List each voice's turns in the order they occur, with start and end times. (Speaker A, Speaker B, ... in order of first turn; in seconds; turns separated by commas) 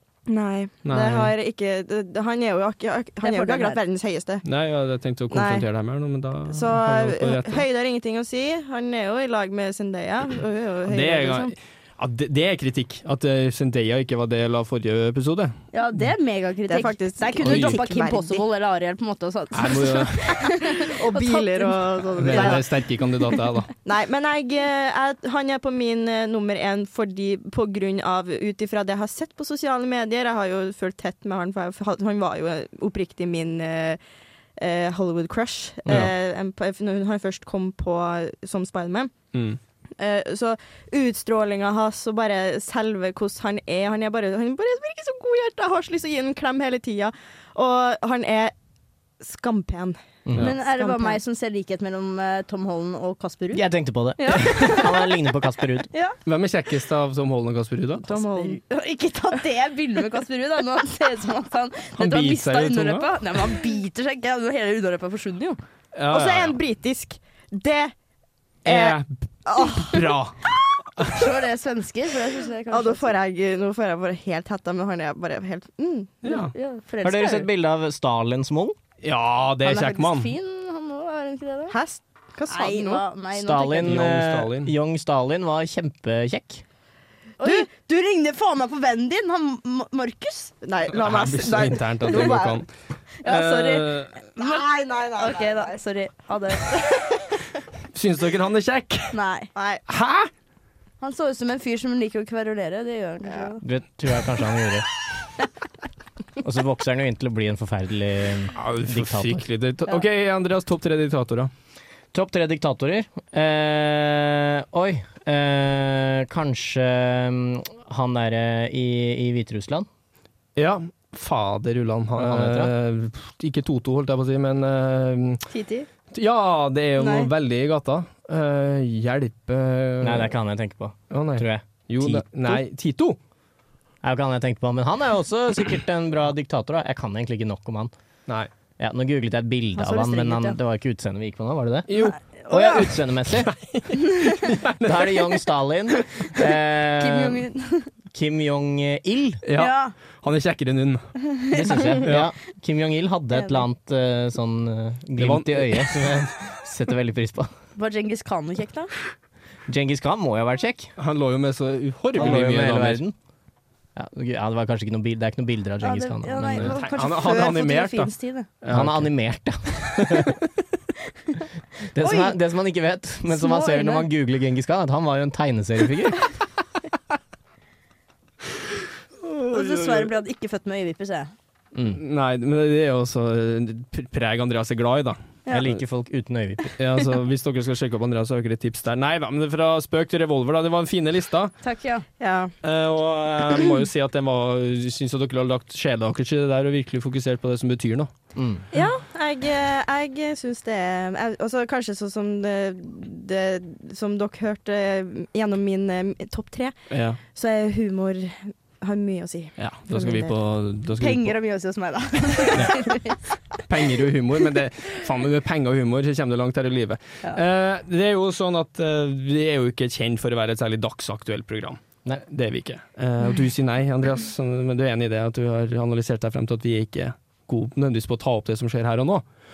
Speaker A: 0.3-4.4, Speaker B: 0.8-1.3, Speaker C: 3.2-3.8, Speaker B: 4.5-7.6, Speaker A: 5.3-5.6, Speaker A: 6.5-11.5, Speaker B: 10.9-15.6, Speaker C: 15.7-22.6, Speaker A: 16.7-18.4, Speaker B: 17.4-17.8, Speaker B: 19.5-20.4, Speaker A: 20.4-22.6, Speaker B: 22.2-23.7, Speaker A: 23.8-34.0, Speaker A: 34.6-39.1, Speaker B: 35.9-36.1, Speaker B: 39.3-39.6, Speaker A: 40.0-48.5, Speaker A: 49.2-51.2, Speaker C: 50.4-53.6, Speaker D: 53.5-55.9, Speaker C: 54.2-55.2, Speaker B: 56.2-58.2, Speaker A: 58.0-58.6, Speaker C: 58.4-65.6, Speaker B: 62.0-63.1, Speaker B: 65.9-66.6, Speaker A: 66.1-67.9, Speaker A: 68.6-70.2, Speaker B: 68.6-70.4, Speaker C: 71.0-73.2, Speaker A: 72.7-76.4, Speaker B: 76.2-76.5, Speaker C: 76.3-77.5, Speaker D: 77.0-78.8, Speaker B: 79.0-80.3, Speaker C: 79.6-81.8, Speaker A: 81.7-83.0, Speaker C: 82.5-84.0, Speaker D: 83.3-86.6, Speaker B: 83.8-84.7, Speaker C: 87.4-90.5, Speaker A: 90.6-92.6, Speaker B: 90.9-92.7, Speaker C: 92.0-92.4, Speaker C: 93.2-94.6, Speaker B: 93.2-94.1, Speaker A: 94.4-95.8, Speaker C: 95.2-96.7, Speaker A: 96.6-97.4, Speaker B: 97.9-99.1, Speaker C: 99.1-99.5, Speaker A: 99.5-99.8, Speaker B: 99.9-100.3, Speaker C: 101.0-103.6, Speaker D: 103.6-104.8, Speaker D: 106.4-109.4, Speaker B: 108.5-111.5, Speaker D: 112.1-119.9, Speaker B: 120.5-125.4, Speaker D: 122.1-122.7, Speaker C: 125.5-125.9, Speaker B: 126.1-130.3, Speaker C: 127.0-127.3, Speaker D: 130.0-132.6, Speaker B: 131.1-133.2, Speaker D: 134.0-137.9, Speaker D: 138.8-141.9, Speaker C: 139.8-140.6, Speaker B: 141.9-142.2, Speaker C: 141.9-142.9, Speaker D: 142.5-143.5, Speaker B: 143.3-145.4, Speaker D: 144.8-147.5, Speaker C: 147.0-147.9, Speaker D: 148.1-149.4, Speaker B: 149.4-151.1, Speaker C: 149.5-149.9, Speaker C: 151.3-152.0, Speaker D: 151.5-157.5, Speaker C: 153.3-153.6, Speaker B: 155.2-156.0, Speaker C: 157.8-158.9, Speaker D: 159.7-160.9, Speaker B: 161.0-163.0, Speaker D: 162.2-163.1, Speaker D: 163.9-166.8, Speaker C: 165.8-168.5, Speaker B: 166.5-168.1, Speaker B: 168.6-169.1, Speaker D: 168.7-170.3, Speaker B: 170.1-170.3, Speaker D: 171.9-176.3, Speaker C: 172.0-172.3, Speaker C: 173.3-174.1, Speaker B: 179.2-180.1, Speaker C: 179.5-181.3, Speaker D: 181.7-182.0, Speaker B: 182.0-185.2, Speaker D: 185.5-186.7, Speaker B: 186.8-191.5, Speaker C: 191.6-192.0, Speaker A: 192.2-192.5, Speaker B: 192.6-198.1, Speaker D: 198.3-198.6, Speaker A: 198.7-206.7, Speaker B: 206.9-207.2, Speaker A: 207.3-210.3, Speaker B: 209.6-211.3, Speaker C: 211.0-213.2, Speaker B: 213.7-229.2